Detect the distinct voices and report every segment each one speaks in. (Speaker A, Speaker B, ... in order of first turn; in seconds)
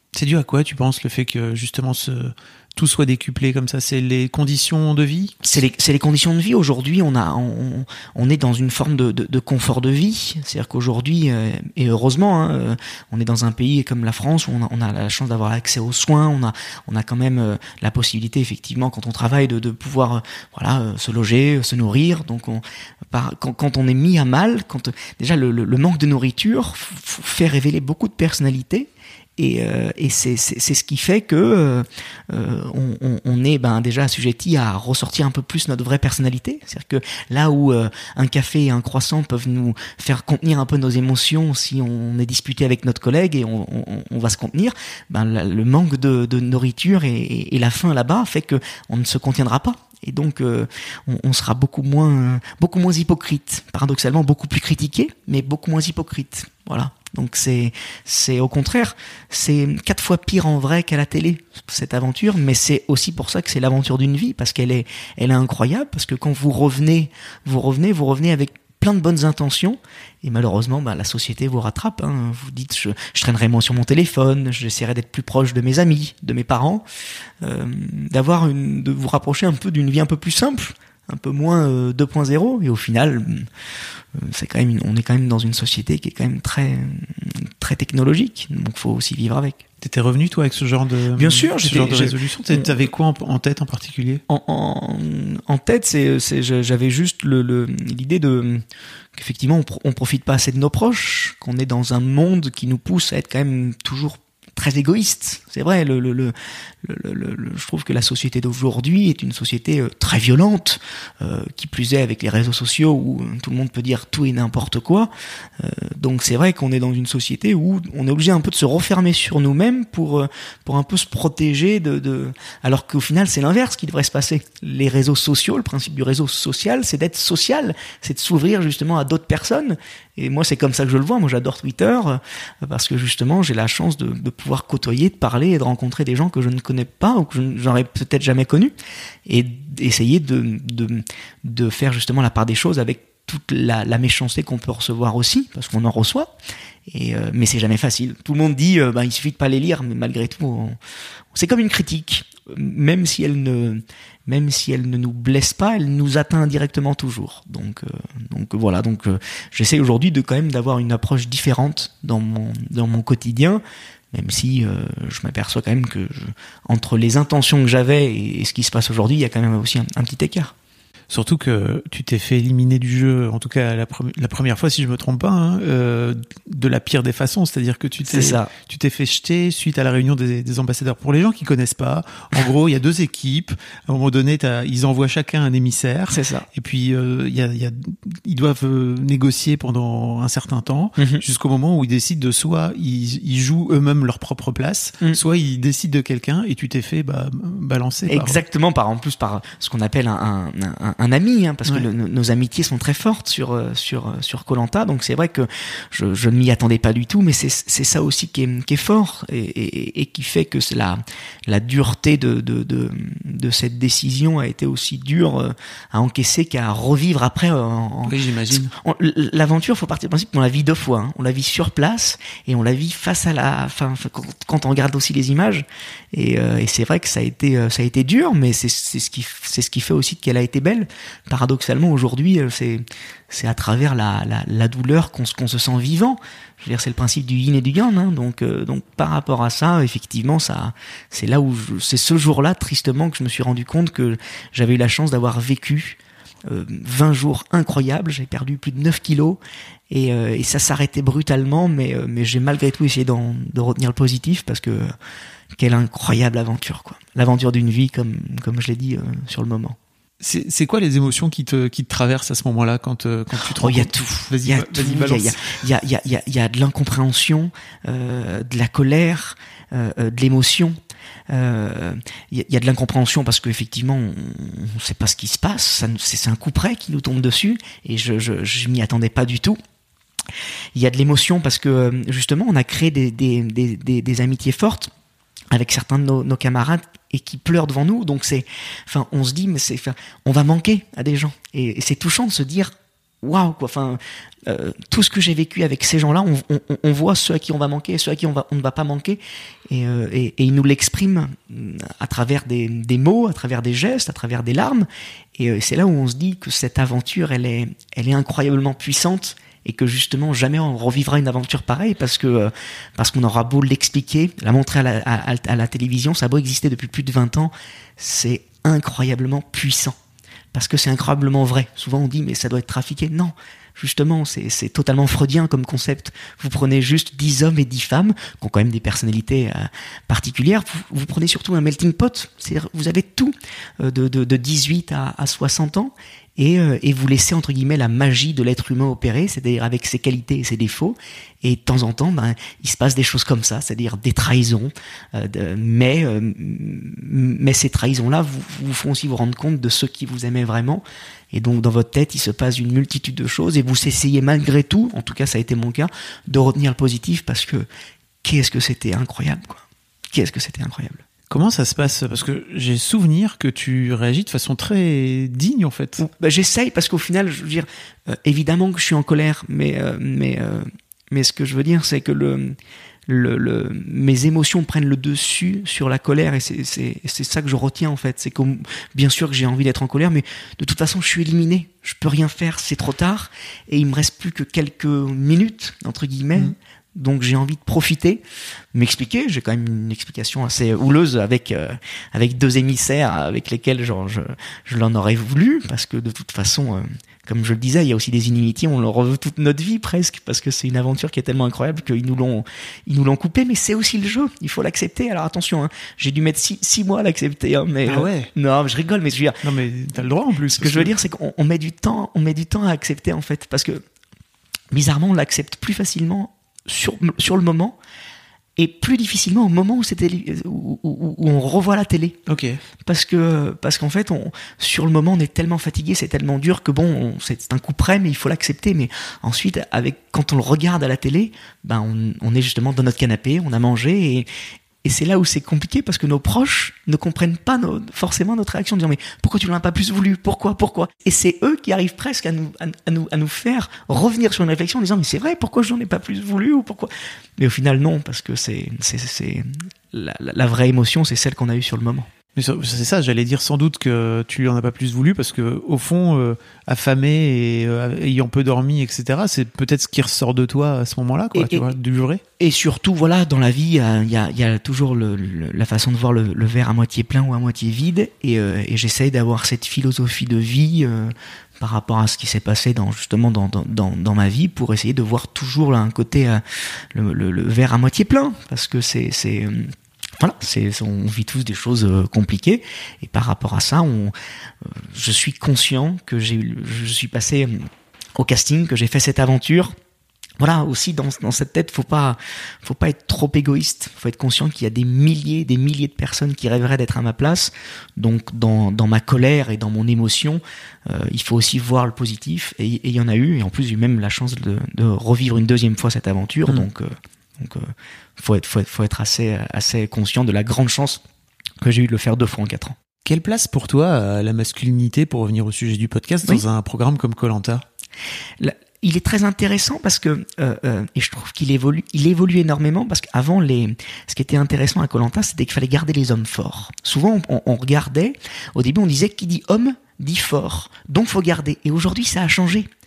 Speaker A: 0.1-5.6, 89.8-94.2, 171.1-198.4, 218.1-218.7, 260.2-265.6, 361.3-366.0, 407.9-408.3, 409.4-410.9, 422.3-422.6, 452.4-462.2, 513.0-517.6
Speaker B: 5.4-76.8, 77.4-83.5, 84.2-89.6, 91.2-92.9, 94.3-98.6, 99.2-138.7, 139.3-146.3, 146.9-150.8, 151.3-170.5, 178.1-178.5, 186.1-186.5, 191.0-191.2, 198.1-254.9, 255.5-259.8, 263.4-270.8, 271.3-279.6, 280.7-284.9, 285.5-320.0, 320.5-357.7, 358.2-361.0, 366.0-372.6, 373.1-409.4, 410.5-413.8, 414.7-417.8, 418.6-422.2, 422.9-434.3, 434.8-452.1, 461.3-461.7, 462.4-489.7, 490.4-511.0, 511.6-512.8, 518.4-532.7